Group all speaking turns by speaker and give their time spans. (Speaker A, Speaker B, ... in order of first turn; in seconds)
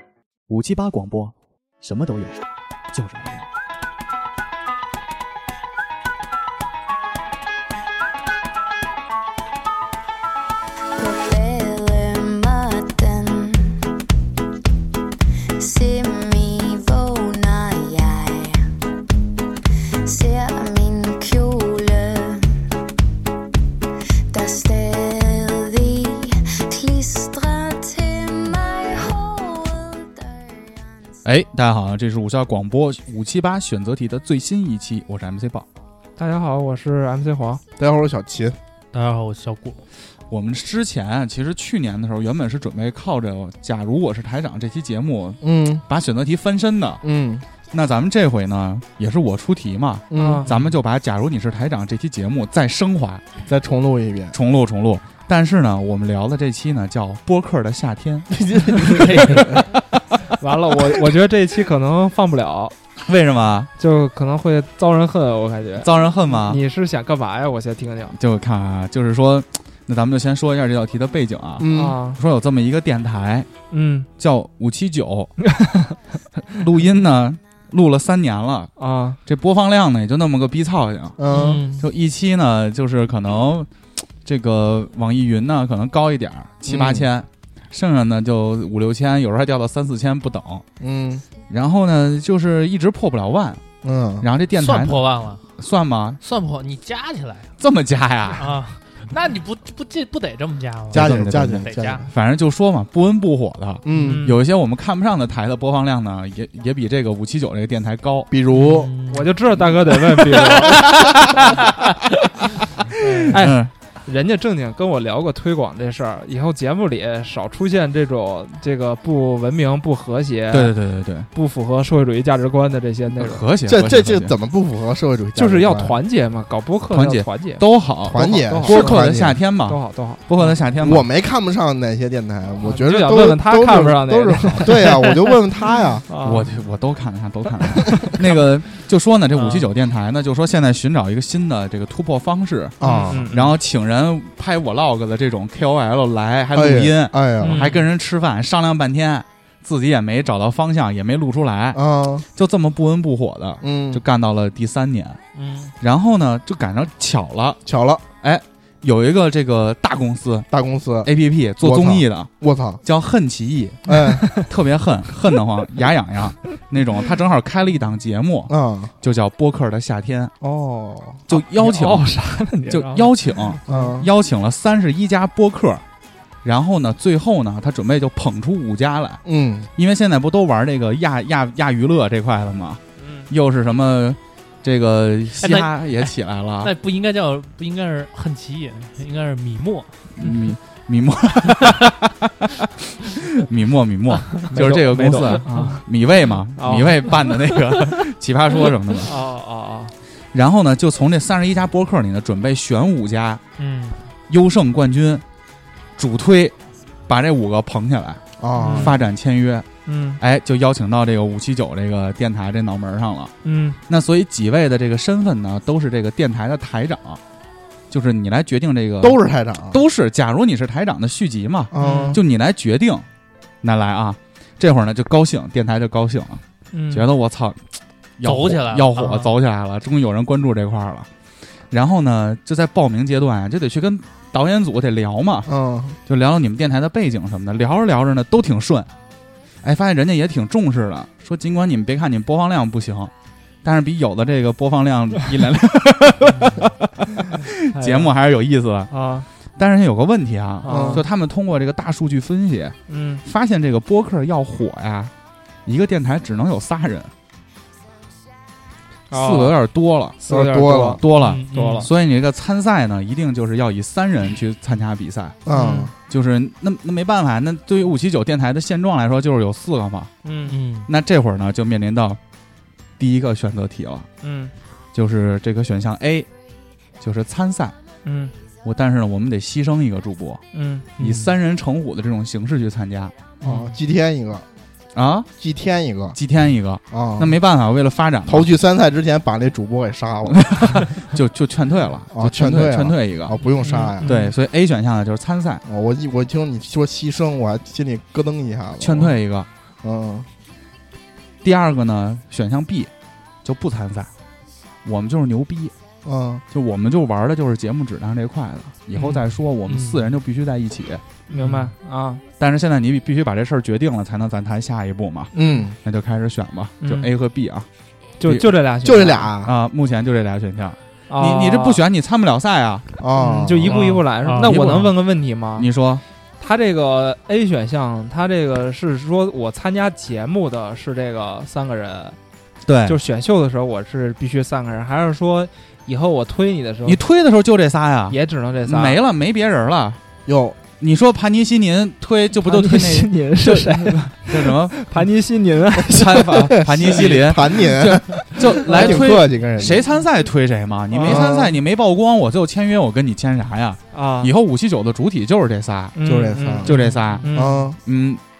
Speaker A: 0.5-2.4, 2.9-3.4, 31.2-35.6, 40.3-47.0, 47.7-53.2, 54.3-59.5, 63.0-63.7, 65.8-66.6, 68.2-73.5, 74.2-75.3, 76.5-78.7, 79.2-81.2, 81.8-83.7, 84.2-90.6, 91.5-93.6, 94.2-95.0, 95.6-96.2, 97.6-98.5, 100.9-108.3, 110.9-111.3, 113.1-113.7, 120.5-121.3, 123.2-124.3, 126.9-131.1, 136.2-142.8, 143.3-155.2, 155.8-157.6, 158.2-160.5, 161.0-162.3, 162.8-170.3, 171.3-172.1, 172.7-175.8, 176.4-179.2, 179.8-186.7, 190.2-192.5, 193.0-199.1, 200.3-203.4, 204.3-205.2, 206.0-206.5, 207.1-208.2, 208.8-209.7, 210.2-213.3, 213.9-217.2, 217.9-223.1, 223.6-227.6, 228.2-231.1, 231.7-235.5, 236.1-238.9, 239.6-243.1, 243.6-248.9, 249.6-255.1, 255.7-257.1, 259.1-260.2, 261.0-265.4, 266.1-270.1, 270.9-272.2, 273.0-274.1, 274.9-276.3, 277.0-277.7, 278.6-280.4, 281.0-283.1, 284.9-285.3, 286.1-288.5, 290.4-293.3, 294.0-295.6, 298.8-299.5, 301.4-302.9, 303.4-304.1, 304.8-305.7, 306.5-311.0, 312.4-315.3, 315.8-317.7, 318.2-318.6, 319.4-322.9, 323.8-324.9, 325.6-326.0, 332.6-333.0, 336.8-340.0, 340.8-345.0, 345.9-357.3, 357.8-358.2
Speaker B: 11.0-13.8, 15.6-18.6, 20.0-22.5, 24.3-31.2
Speaker C: 36.2-37.6, 50.1-50.5, 60.4-62.7, 63.8-68.2, 71.7-72.2, 73.7-74.1, 75.5-76.0, 78.8-79.2, 81.3-81.7, 103.9-104.4, 109.1-110.9, 113.3-120.7, 121.3-123.4, 125.3-129.0, 129.7-130.5, 132.6-135.2, 136.1-136.5, 142.8-143.5, 147.4-147.7, 171.3-173.9, 183.0-183.3, 194.5-195.8, 196.6-197.1, 199.1-199.9, 208.6-208.9, 209.8-210.2, 213.4-213.8, 221.8-222.2, 226.7-227.1, 247.7-248.1, 248.9-249.3, 250.6-251.0, 252.9-253.2, 259.1-259.5, 260.2-261.0, 261.5-261.9, 265.5-265.9, 270.2-270.6, 274.2-274.5, 278.0-278.3, 280.5-280.9, 283.4-283.7, 294.0-294.3, 311.3-312.2, 316.8-317.1, 318.2-319.3, 321.1-321.8, 323.2-325.7, 326.4-332.2, 332.8-337.0, 338.1-339.0, 342.4-347.2, 348.6-349.0, 350.9-351.2, 353.9-354.3, 355.9-357.6
Speaker D: 37.8-38.6, 45.4-45.8, 47.0-47.4, 50.1-50.5, 53.5-54.4, 58.5-59.4, 71.6-72.0, 81.2-81.6, 86.7-87.1, 90.8-91.2, 93.8-94.3, 100.9-102.1, 103.8-104.2, 108.3-108.9, 123.7-126.0, 128.0-129.4, 130.8-136.0, 142.8-143.3, 146.5-147.6, 151.7-152.2, 153.6-154.0, 157.6-158.0, 160.5-162.8, 163.9-164.3, 168.5-168.9, 170.4-171.2, 173.7-174.1, 179.2-179.7, 208.4-209.0, 219.0-219.8, 221.7-222.2, 235.5-236.0, 250.7-251.0, 260.3-261.0, 265.4-265.9, 283.4-284.4, 285.4-286.2, 286.9-287.4, 288.3-290.6, 292.1-294.1, 295.6-299.1, 299.8-300.3, 306.0-306.4, 315.3-315.8, 318.8-319.5, 323.0-323.7, 340.2-340.6, 346.5-349.8, 351.0-351.5, 356.1-356.7, 357.3-357.8
Speaker E: 38.9-39.8, 81.3-81.7, 94.6-95.4, 96.2-97.5, 98.3-102.0, 108.6-109.3, 113.0-113.4, 139.3-139.7, 155.3-155.7, 185.4-190.4, 195.4-195.8, 203.6-204.0, 228.2-229.3, 261.1-261.9, 270.5-270.9, 281.0-281.3, 309.7-310.0, 311.4-311.7, 323.7-324.6